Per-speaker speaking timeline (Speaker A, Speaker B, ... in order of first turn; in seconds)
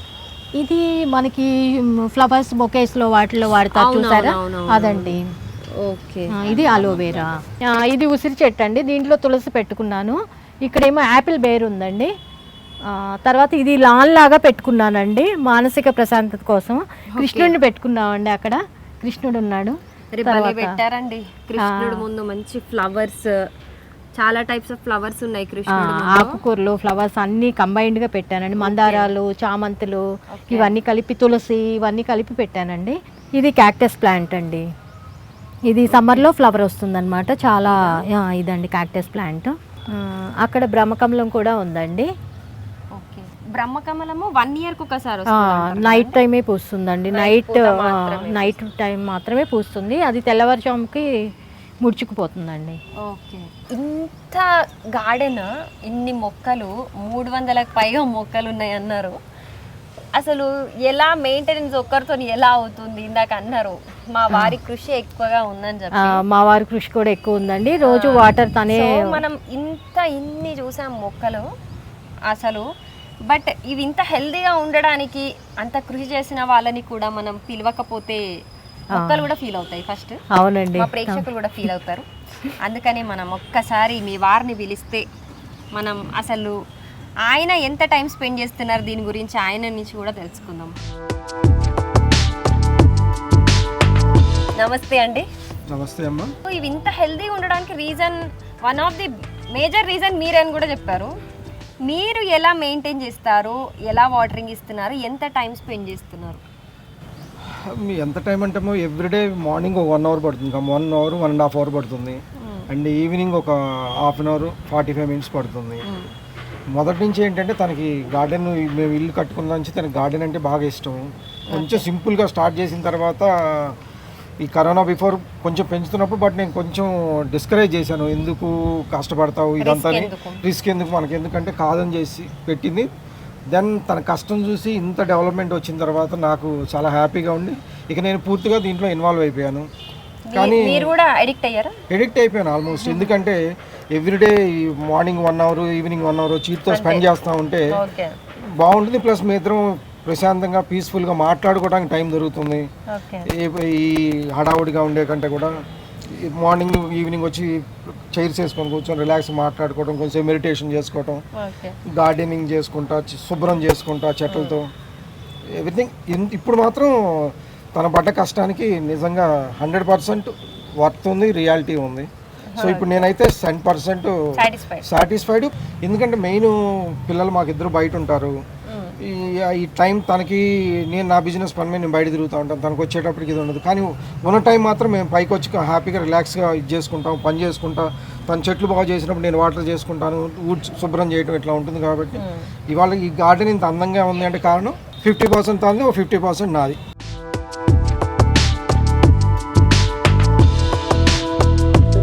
Speaker A: 0.6-5.2, 6.3-12.1, 12.9-20.8, 21.6-22.1, 25.7-34.6, 35.7-42.1, 45.3-51.1, 51.8-52.8, 64.3-64.6, 66.0-69.2, 78.9-79.3, 80.3-81.2
Speaker B: 3.8-5.2, 5.8-7.4, 17.1-17.6, 20.1-23.5, 24.2-26.4, 28.6-29.1, 30.3-30.7, 35.9-36.3, 37.7-38.0, 42.9-46.2, 47.1-48.5, 53.0-59.2, 60.1-66.2, 67.9-71.5, 72.3-72.7, 73.3-78.2, 78.9-80.2, 80.8-82.1, 82.6-85.0, 85.7-86.6, 87.2-90.8, 94.6-95.3, 96.5-101.1, 101.8-106.4, 112.4-112.7, 121.5-121.9, 129.6-130.4, 140.3-141.8, 142.8-143.1, 146.7-147.1, 147.7-148.2, 152.9-153.3, 161.3-161.8, 164.3-164.6, 172.5-173.1, 174.3-174.9, 178.7-179.0, 192.2-192.5
Speaker C: 95.7-96.3, 107.5-115.8, 116.7-123.8, 124.4-132.9, 133.5-139.7, 140.3-140.9, 141.9-143.4, 143.9-147.7, 148.6-152.7, 153.3-155.5, 156.1-161.2, 161.9-164.7, 165.6-174.2, 174.8-178.4, 179.0-196.8